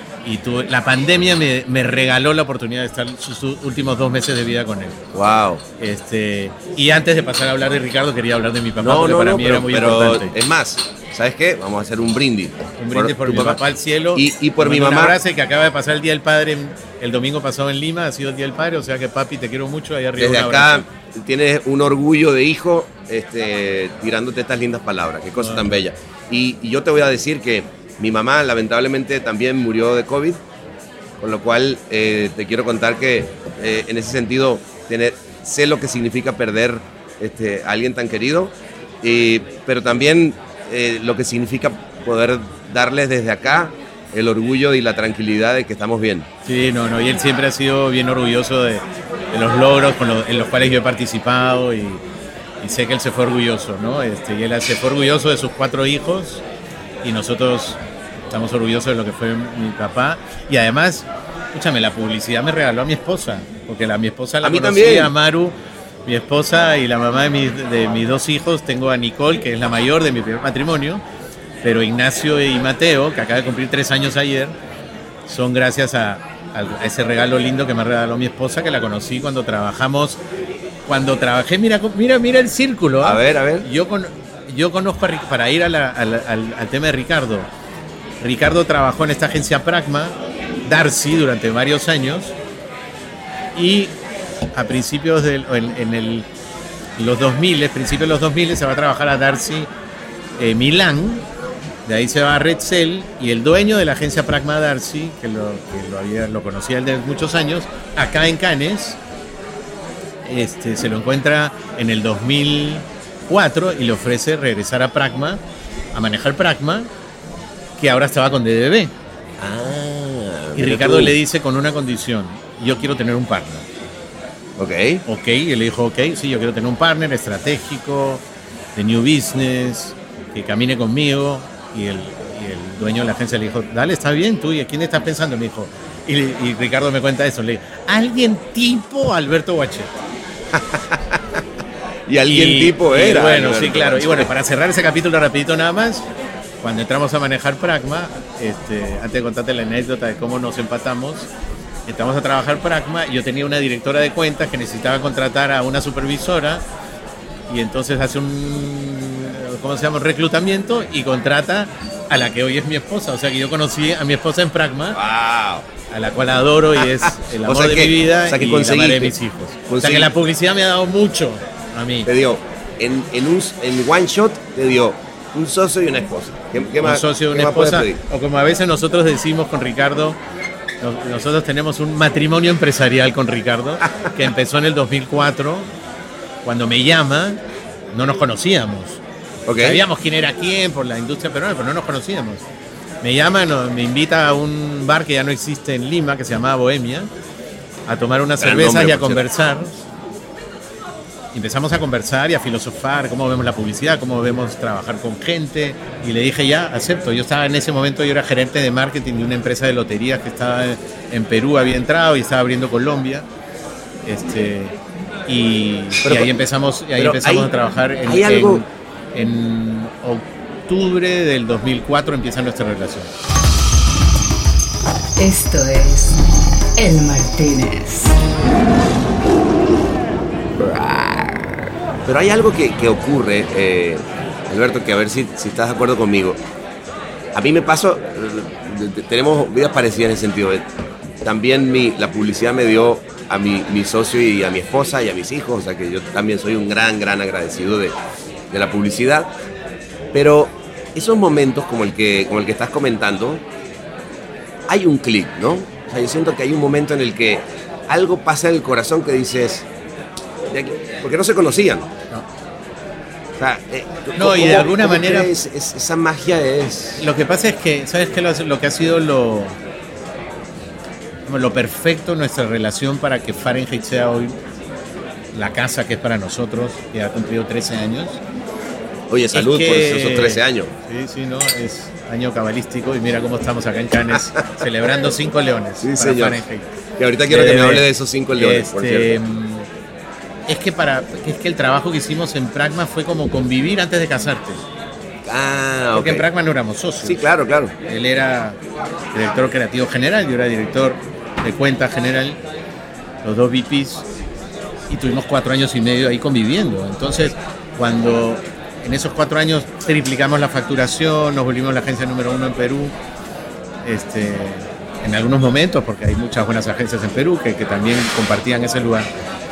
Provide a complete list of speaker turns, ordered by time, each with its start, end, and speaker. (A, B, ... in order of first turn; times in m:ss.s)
0:00.2-0:05.0 A
0:05.1-0:05.6 B
0:05.8-0:10.3 A
0:08.8-0:13.6 B
0:12.8-0:20.9 A
0:14.1-0:15.2 B
0:20.2-0:30.4 B
0:25.4-0:25.8 A
0:31.2-0:46.3 B
0:46.4-0:52.0 A
0:52.6-0:56.4 A
0:57.0-0:57.8 A
0:58.3-1:05.6 A
1:04.4-1:05.1 B
1:06.1-1:11.0 A
1:11.6-1:14.5 A
1:15.3-1:20.2 A
1:20.9-1:27.5 A
1:23.0-1:23.7 B
1:28.2-1:32.4 A
1:33.6-1:33.9 A
1:34.5-1:36.3 A
1:37.0-1:39.7 A
1:40.4-1:41.2 A
1:41.8-1:49.0 A
1:50.2-1:55.4 A
1:55.9-1:56.9 A
1:57.8-1:58.9 A
1:59.4-2:01.2 B
2:00.6-2:03.6 A
2:04.6-2:05.0 B
2:05.1-2:08.2 A
2:08.8-2:19.9 A
2:20.5-2:21.4 B
2:22.1-2:24.3 B
2:22.3-2:26.1 A
2:26.6-2:31.3 A
2:31.9-2:36.6 A
2:37.5-2:45.0 A
2:44.9-2:45.6 B
2:45.9-2:52.1 A
2:46.8-2:49.1 B
2:49.7-2:50.1 B
2:52.1-2:58.0 B
2:56.8-3:00.2 A
3:00.8-3:05.7 A
3:06.4-3:07.4 A
3:07.9-3:09.0 A
3:09.4-3:09.8 B
3:09.6-3:12.4 A
3:13.0-3:17.1 A
3:17.9-3:19.8 A
3:18.4-3:19.2 B
3:21.3-3:33.3 A
3:34.1-3:43.1 A
3:36.0-3:36.3 B
3:37.0-3:37.5 B
3:38.1-3:38.6 B
3:45.2-3:46.2 C
3:46.8-3:48.1 C
3:52.0-3:56.4 B
3:57.3-4:00.7 B
4:01.2-4:08.0 B
4:08.5-4:09.3 B
4:10.1-4:13.4 B
4:14.7-4:19.7 B
4:20.5-4:21.9 B
4:23.4-4:27.0 B
4:24.2-4:25.3 A
4:27.0-4:29.6 A
4:31.3-4:34.4 A
4:35.3-4:38.2 A
4:39.1-4:40.7 B
4:39.3-4:46.7 A
4:45.8-4:46.4 B
4:47.0-4:49.1 B
4:47.3-4:49.7 A
4:50.5-4:54.6 A
4:55.2-4:56.2 B
4:55.9-4:57.2 A
4:57.0-4:57.7 B
4:57.8-4:58.6 A
4:59.1-5:02.4 A
5:03.2-5:04.1 A
5:04.9-5:12.9 A
5:13.8-5:19.1 A